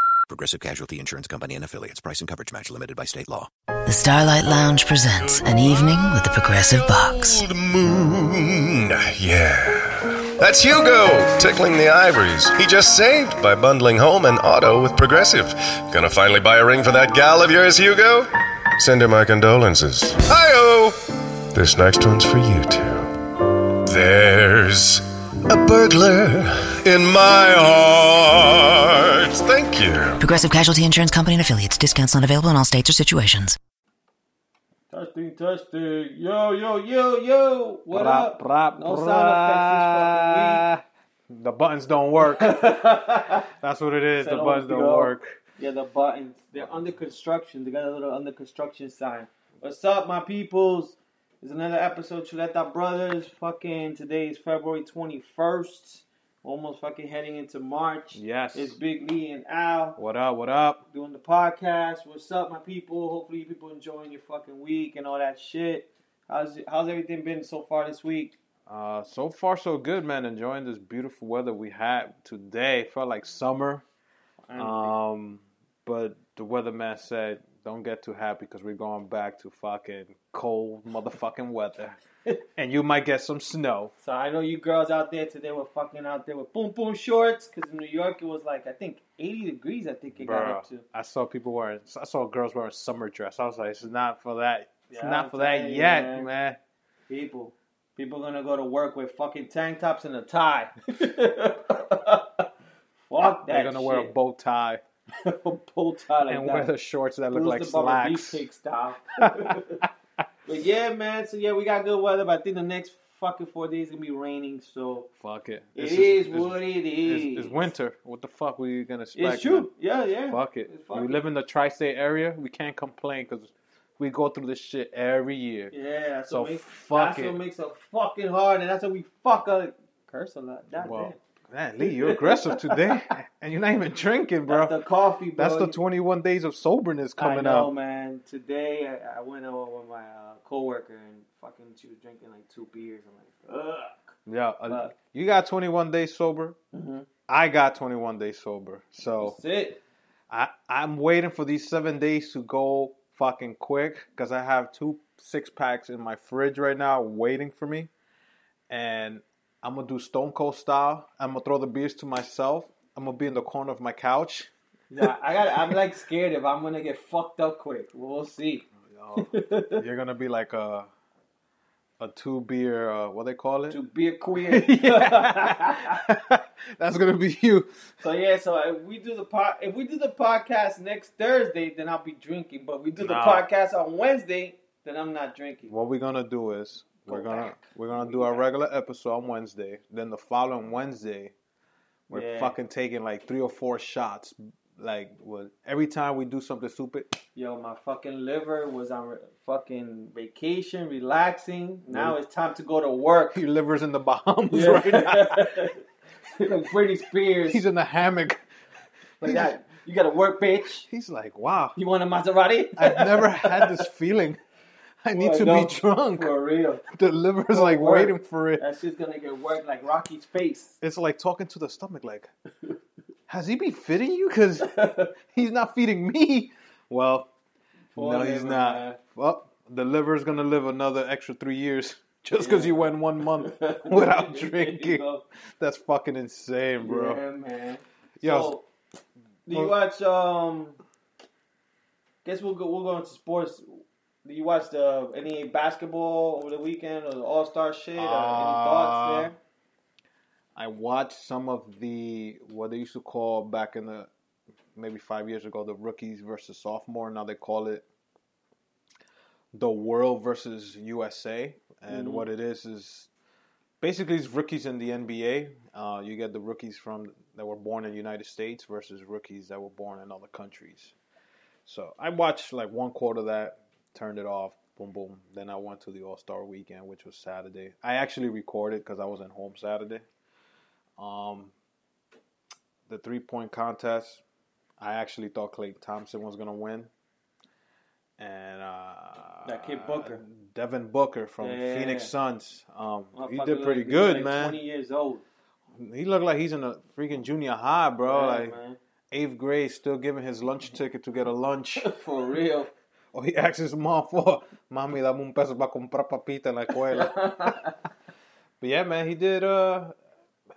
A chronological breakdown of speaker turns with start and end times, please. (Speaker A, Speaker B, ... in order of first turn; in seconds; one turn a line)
Speaker A: 0.3-3.5
Speaker B: 3.9-7.4
Speaker C: 7.2-21.0
Speaker C: 21.5-30.2
Speaker B: 30.2-33.6
Speaker D: 34.9-40.6
Speaker E: 37.9-42.6
Speaker D: 42.2-43.5
Speaker E: 43.5-45.4
Speaker D: 44.2-60.0
Speaker E: 58.1-58.8
Speaker E: 60.0-60.8
Speaker D: 60.9-68.3
Speaker E: 68.7-73.8
Speaker D: 74.5-74.9
Speaker E: 74.5-82.0
Speaker E: 82.5-83.9
Speaker D: 84.0-90.8
Speaker E: 90.2-96.6
Speaker D: 94.9-96.3
Speaker D: 97.1-102.5
Speaker D: 103.1-104.1
Speaker E: 103.5-104.8
Speaker D: 105.2-106.7
Speaker E: 106.3-108.5
Speaker D: 107.3-109.8
Speaker E: 109.2-109.9
Speaker D: 110.5-115.1
Speaker E: 115.2-119.7
Speaker D: 115.7-117.7
Speaker D: 119.1-121.2
Speaker E: 120.3-125.7
Speaker D: 125.7-131.2
Speaker E: 126.3-127.4
Speaker E: 130.7-134.8
Speaker D: 131.8-133.0
Speaker D: 134.5-135.8
Speaker E: 135.3-137.7
Speaker D: 137.2-144.1
Speaker E: 144.3-146.6
Speaker D: 144.7-144.9
Speaker D: 146.7-147.1
Speaker E: 147.3-149.4
Speaker D: 149.2-149.8
Speaker E: 150.3-157.9
Speaker E: 158.7-164.5
Speaker D: 164.9-169.8
Speaker E: 168.9-170.9
Speaker E: 172.0-173.8
Speaker D: 173.7-176.0
Speaker E: 174.4-177.8
Speaker D: 178.0-185.7
Speaker E: 183.0-183.5
Speaker E: 185.7-191.3
Speaker D: 187.1-188.4
Speaker D: 192.1-192.5
Speaker E: 192.1-197.2
Speaker D: 197.3-203.4
Speaker E: 201.9-202.2
Speaker E: 203.3-205.7
Speaker D: 204.5-205.8
Speaker D: 206.3-207.6
Speaker E: 207.5-208.4
Speaker E: 209.2-209.5
Speaker D: 209.2-210.8
Speaker E: 210.8-211.8
Speaker D: 211.8-213.8
Speaker E: 212.8-214.4
Speaker E: 215.0-216.3
Speaker D: 215.1-216.8
Speaker E: 216.9-218.6
Speaker D: 217.5-220.8
Speaker E: 220.8-222.3
Speaker E: 223.3-227.3
Speaker D: 224.6-225.1
Speaker D: 227.9-229.0
Speaker E: 227.9-235.1
Speaker D: 232.3-235.2
Speaker E: 235.6-237.2
Speaker D: 236.8-238.6
Speaker E: 238.2-238.5
Speaker D: 239.4-240.8
Speaker E: 239.5-239.7
Speaker D: 242.2-249.3
Speaker E: 247.9-249.3
Speaker E: 250.6-254.1
Speaker E: 254.7-257.8
Speaker E: 259.5-263.1
Speaker D: 261.9-262.2
Speaker E: 263.8-270.9
Speaker E: 271.6-280.0
Speaker E: 281.0-281.5
Speaker E: 282.9-284.2
Speaker E: 284.8-286.9
Speaker E: 288.2-294.6
Speaker D: 289.4-290.2
Speaker D: 291.4-292.1
Speaker D: 293.1-295.2
Speaker E: 295.8-298.6
Speaker D: 298.1-298.8
Speaker E: 299.1-301.9
Speaker D: 301.8-302.7
Speaker E: 303.1-307.6
Speaker D: 306.7-307.7
Speaker E: 308.6-309.9